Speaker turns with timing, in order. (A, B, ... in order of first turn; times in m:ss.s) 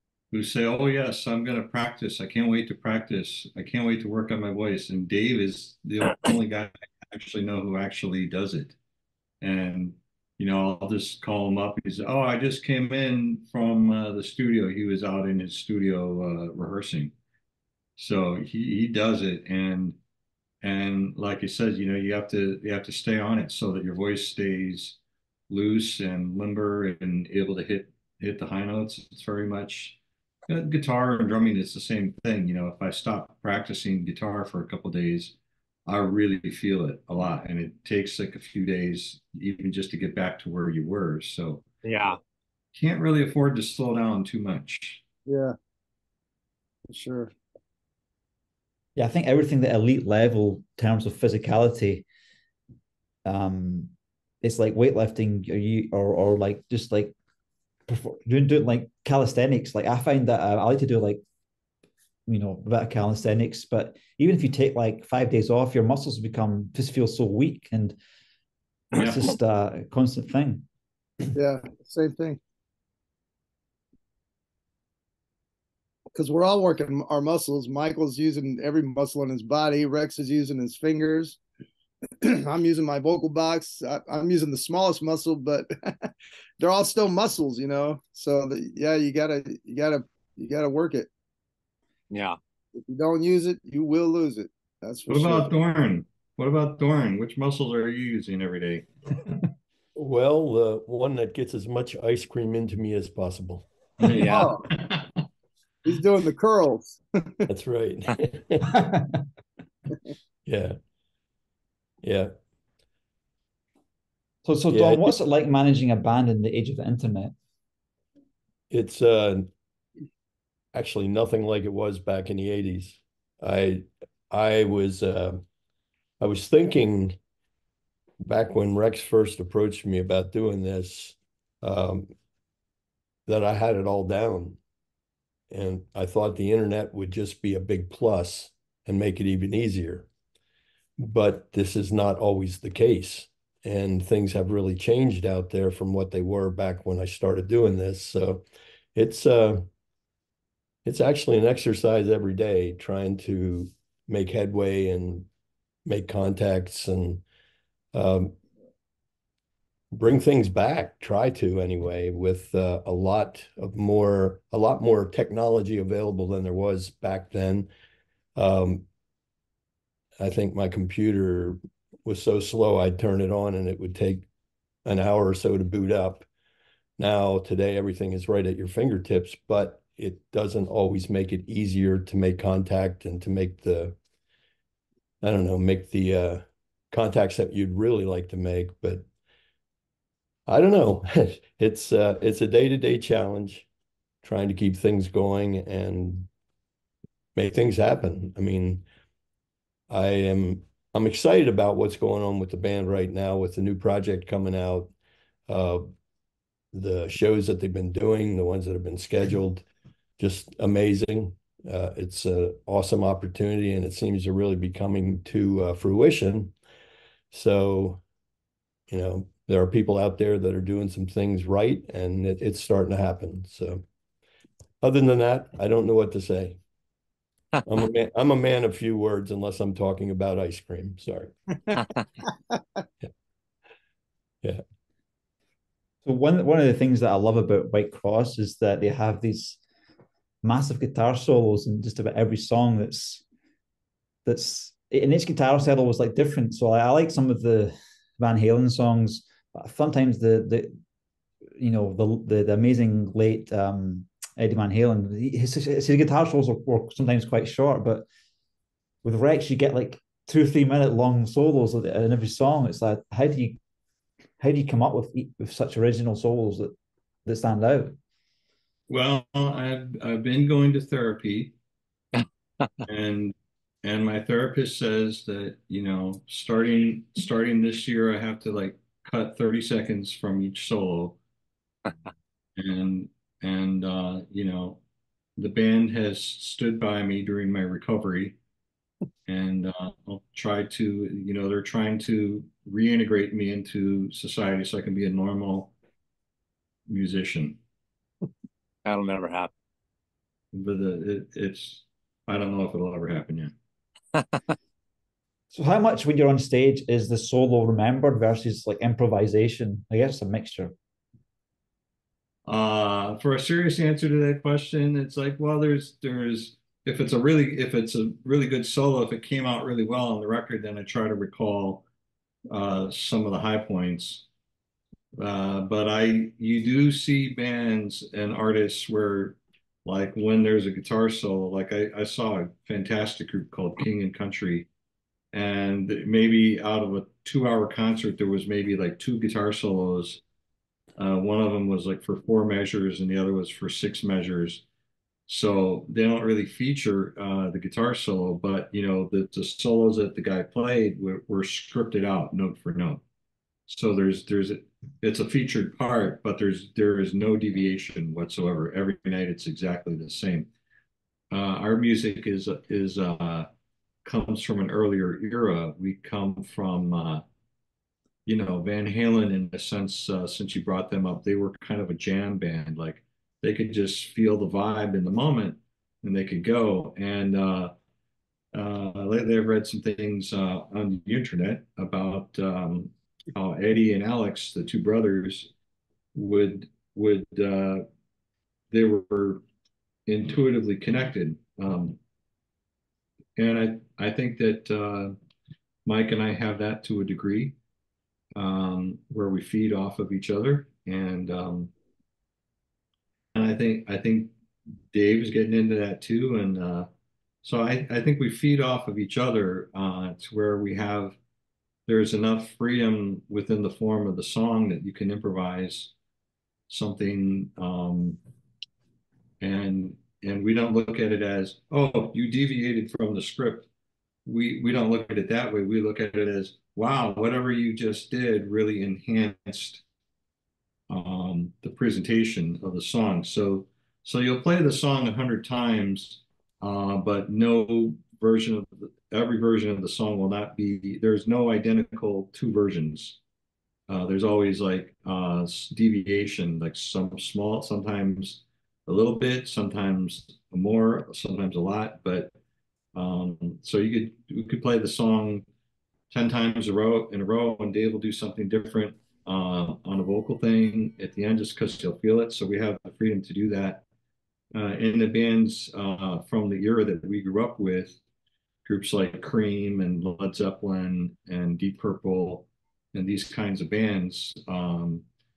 0:00.3-0:08.8 A
0:09.4-0:17.1 A
0:18.0-0:20.0 A
0:20.6-0:25.0 A
0:25.5-0:30.0 A
0:30.5-0:41.6 A
0:41.8-0:42.2 B
0:42.7-0:45.0 A
0:45.3-0:45.6 C
0:46.9-0:47.3 C
0:49.0-0:52.0 D
0:53.2-0:57.1 D
0:57.9-1:01.2 D
1:02.3-1:08.0 D
1:08.9-1:10.6 D
1:11.3-1:12.4 C
1:16.1-1:21.4 C
1:22.2-1:31.1 C
1:32.1-1:32.4 B
1:32.7-1:35.5 C
1:35.1-1:38.9 A
1:39.9-1:43.7 E
1:44.0-1:45.2 A
1:44.1-1:44.5 B
1:44.2-1:44.7 C
1:45.8-1:47.5 C
1:47.5-1:48.8 E
1:50.4-1:50.8 E
1:52.0-1:52.3 E
1:54.4-1:57.3 D
1:54.7-1:55.2 E
1:58.7-1:59.5 E
2:00.7-2:05.4 E
2:06.2-2:07.2 E
2:08.2-2:12.1 E
2:13.2-2:14.6 E
2:15.5-2:20.1 E
2:21.0-2:28.4 E
2:28.9-2:29.7 E
2:30.8-2:35.3 E
2:35.8-2:37.2 E
2:37.9-2:38.4 E
2:39.9-2:47.7 E
2:48.4-2:48.8 E
2:50.2-2:54.2 E
2:54.8-2:56.3 E
2:57.0-3:04.0 E
3:05.2-3:09.0 E
3:10.5-3:13.6 E
3:14.2-3:16.3 E
3:17.4-3:18.8 E
3:19.9-3:24.9 E
3:25.5-3:25.9 E
3:26.7-3:29.6 E
3:30.2-3:36.5 E
3:37.3-3:38.0 E
3:38.9-3:43.8 E
3:44.8-3:46.6 E
3:47.6-3:51.3 E
3:56.0-3:59.6 D
4:00.4-4:03.2 D
4:04.2-4:10.8 D
4:11.6-4:18.1 D
4:19.0-4:23.6 D
4:24.4-4:26.7 D
4:27.2-4:28.0 D
4:28.9-4:31.5 A
4:32.1-4:32.7 B
4:32.8-4:41.2 A
4:42.6-4:44.8 A
4:45.4-4:48.4 A
4:49.3-4:55.7 A
4:56.9-4:57.6 A
4:58.8-4:59.5 B
5:00.5-5:03.5 A
5:05.5-5:10.7 D
5:12.4-5:21.8 A
5:22.5-5:24.2 A
5:25.2-5:34.7 A
5:35.3-5:40.2 A
5:41.0-5:44.6 A
5:45.3-5:53.0 A
5:53.7-6:00.5 A
6:01.3-6:03.5 A
6:04.0-6:07.2 A
6:08.2-6:17.7 A
6:18.5-6:25.5 A
6:26.1-6:27.8 A
6:28.7-6:29.4 A
6:30.1-6:32.0 A
6:33.4-6:35.1 A
6:35.8-6:37.5 A
6:38.4-6:41.7 A
6:43.3-6:44.3 A
6:44.9-6:46.9 A
6:47.4-6:51.2 A
6:51.9-6:55.9 A
6:56.7-6:58.2 A
6:59.4-7:03.7 A
7:04.2-7:09.8 A
7:10.9-7:23.2 A
7:23.9-7:32.3 A
7:32.9-7:35.4 A
7:36.1-7:43.8 A
7:44.5-7:48.0 A
7:48.6-7:55.0 A